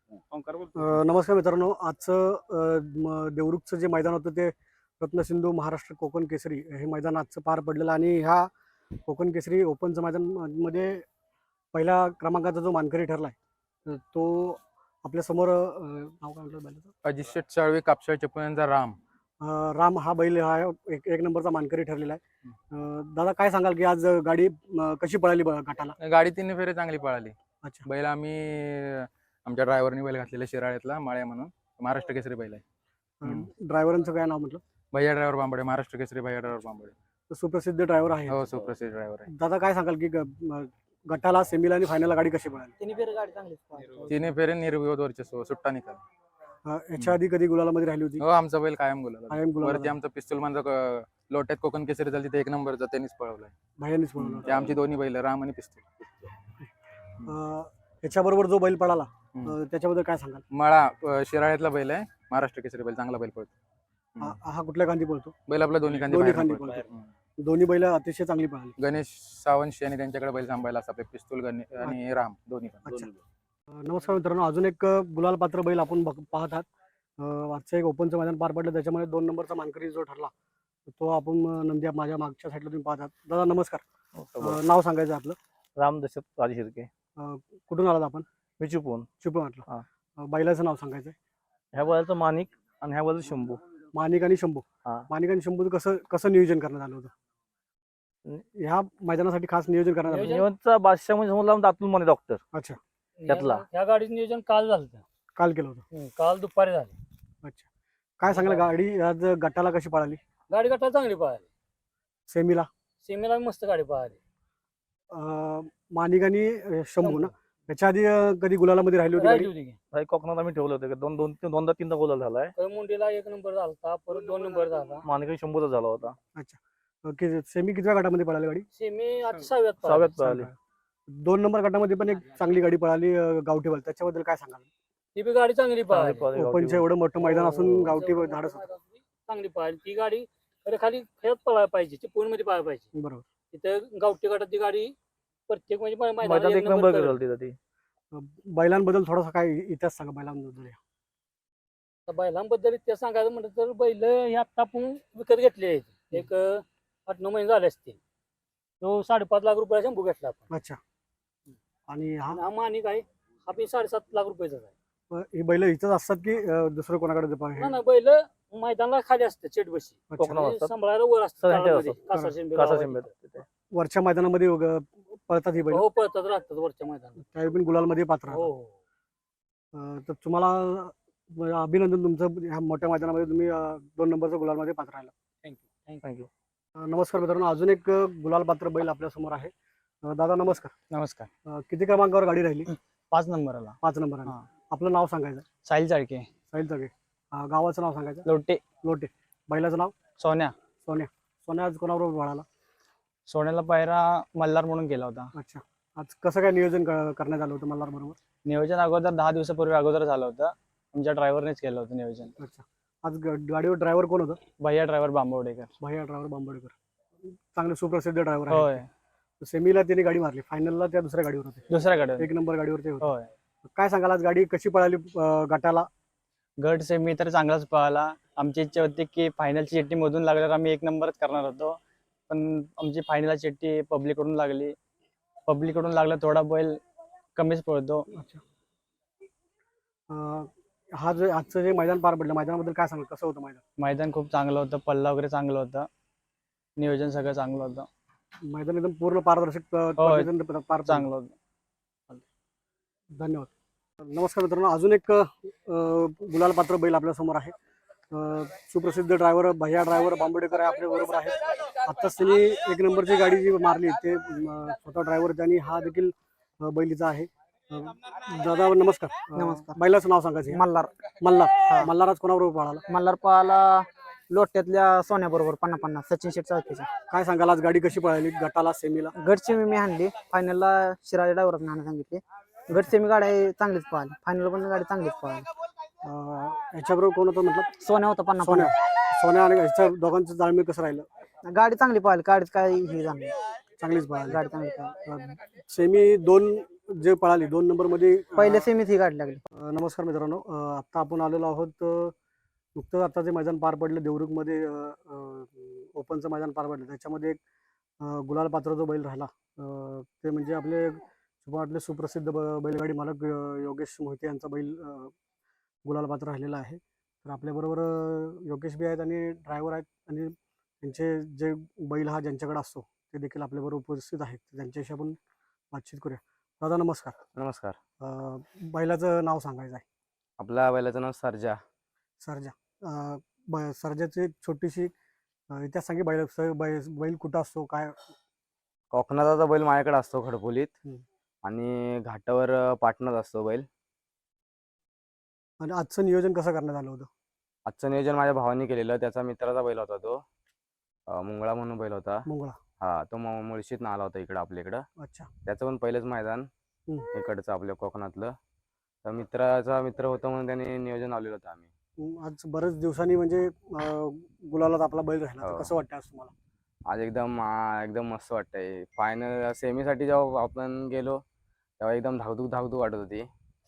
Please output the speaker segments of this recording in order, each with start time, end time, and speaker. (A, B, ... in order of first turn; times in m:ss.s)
0:00.3-0:00.8 A
0:00.7-0:08.5 B
0:09.0-0:11.0 B
0:11.7-0:13.3 B
0:13.8-0:16.9 B
0:17.0-0:19.0 C
0:19.4-0:26.0 B
0:26.0-0:27.3 C
0:27.8-0:32.6 C
0:33.2-0:34.6 B
0:34.9-0:36.9 C
0:37.3-0:38.5 B
0:38.3-0:39.3 C
0:39.3-0:42.7 B
0:42.8-0:44.1 D
0:44.1-0:46.0 C
0:46.6-0:48.2 B
0:48.2-0:53.5 C
0:49.3-0:49.9 B
0:53.8-0:54.8 B
0:54.2-0:55.8 C
0:57.2-1:00.4 B
1:00.5-1:03.5 C
1:04.2-1:05.3 B
1:05.5-1:07.1 C
1:05.9-1:06.8 B
1:07.4-1:08.7 B
1:08.8-1:13.1 C
1:12.8-1:13.1 B
1:13.7-1:16.7 B
1:17.2-1:20.3 B
1:20.9-1:23.8 B
1:24.2-1:24.6 E
1:24.4-1:25.4 B
1:25.8-1:26.9 E
1:27.2-1:28.3 B
1:28.6-1:29.0 E
1:29.2-1:29.6 B
1:30.2-1:31.1 B
1:31.7-1:33.6 E
1:33.9-1:37.1 B
1:38.5-1:40.4 B
1:40.1-1:40.5 F
1:40.3-1:42.4 E
1:42.5-1:42.8 B
1:43.2-1:45.0 F
1:43.3-1:43.6 E
1:45.4-1:45.8 B
1:45.9-1:47.0 F
1:48.2-1:50.2 B
1:48.3-1:48.7 F
1:50.5-1:51.4 F
1:52.3-1:52.7 B
1:53.0-1:54.2 F
1:55.1-1:59.5 B
1:57.0-1:57.3 F
1:59.2-1:59.8 F
1:59.9-2:02.5 E
2:02.6-2:05.1 F
2:05.0-2:06.2 E
2:06.3-2:08.7 B
2:08.7-2:10.2 F
2:09.8-2:10.5 E
2:10.2-2:10.5 B
2:11.1-2:14.7 B
2:15.2-2:16.3 F
2:15.9-2:16.8 E
2:16.3-2:18.7 B
2:17.2-2:22.9 F
2:17.6-2:17.9 E
2:22.9-2:23.2 B
2:23.5-2:24.9 F
2:25.5-2:27.2 F
2:26.2-2:27.6 E
2:28.1-2:30.8 B
2:32.1-2:38.0 F
2:38.8-2:40.4 F
2:40.5-2:40.8 B
2:41.9-2:42.4 B
2:42.3-2:44.7 F
2:45.1-2:47.8 B
2:47.6-2:53.2 F
2:50.1-2:50.4 B
2:50.2-2:50.7 E
2:51.4-2:52.0 E
2:52.1-2:52.4 B
2:52.5-2:53.4 E
2:53.7-2:55.8 B
2:55.7-2:57.2 F
2:57.2-2:58.5 B
2:58.3-2:58.7 F
2:59.7-3:05.1 B
3:05.4-3:06.0 F
3:06.0-3:06.3 E
3:06.8-3:09.5 B
3:10.0-3:10.7 B
3:10.9-3:11.3 A
3:11.4-3:12.7 B
3:12.7-3:14.4 A
3:13.8-3:15.4 B
3:15.6-3:16.3 A
3:16.5-3:18.2 B
3:18.2-3:18.6 A
3:18.8-3:19.9 B
3:20.2-3:20.5 A
3:20.8-3:22.4 B
3:23.3-3:25.3 A
3:25.3-3:28.2 B
3:28.4-3:32.3 A
3:32.4-3:34.4 B
3:34.6-3:35.7 A
3:35.8-3:36.8 B
3:37.5-3:38.8 B
3:38.5-3:38.9 A
3:39.4-3:41.6 B
3:41.7-3:42.3 A
3:42.2-3:43.1 B
3:43.0-3:43.3 A
3:43.6-3:45.9 B
3:46.6-3:51.8 A
3:52.3-3:54.7 A
3:55.5-3:56.8 A
3:57.3-3:58.0 A
3:58.1-3:58.4 B
4:00.1-4:03.6 B
4:03.8-4:05.9 A
4:06.8-4:07.9 A
4:08.4-4:11.1 B
4:10.0-4:10.3 A
4:10.8-4:11.3 A
4:13.2-4:13.5 B
4:14.0-4:17.5 B
4:18.1-4:30.6 B
4:29.4-4:29.8 D
4:30.5-4:30.9 D
4:31.2-4:32.8 B
4:32.9-4:36.9 D
4:37.1-4:39.1 B
4:39.2-4:45.5 D
4:46.0-4:47.7 B
4:47.8-4:48.7 D
4:48.4-4:51.1 B
4:51.4-4:53.3 D
4:53.8-4:54.4 B
4:54.3-4:54.9 D
4:54.9-4:58.7 B
4:58.4-4:59.4 D
4:59.5-5:02.1 B
5:02.8-5:07.4 B
5:08.0-5:15.1 B
5:15.8-5:25.2 B
5:25.7-5:27.1 B
5:27.4-5:27.8 G
5:28.0-5:29.8 B
5:30.4-5:31.5 G
5:32.2-5:34.9 B
5:35.5-5:38.1 B
5:38.9-5:40.7 G
5:41.5-5:43.6 G
5:45.6-5:47.1 B
5:47.7-5:50.1 G
5:51.3-5:52.1 G
5:52.2-5:52.6 B
5:52.8-5:54.8 G
5:55.0-5:55.3 B
5:55.5-5:56.4 G
5:57.2-5:58.3 G
5:59.1-6:01.7 G
6:02.0-6:06.3 B
6:06.9-6:11.1 G
6:11.8-6:13.2 G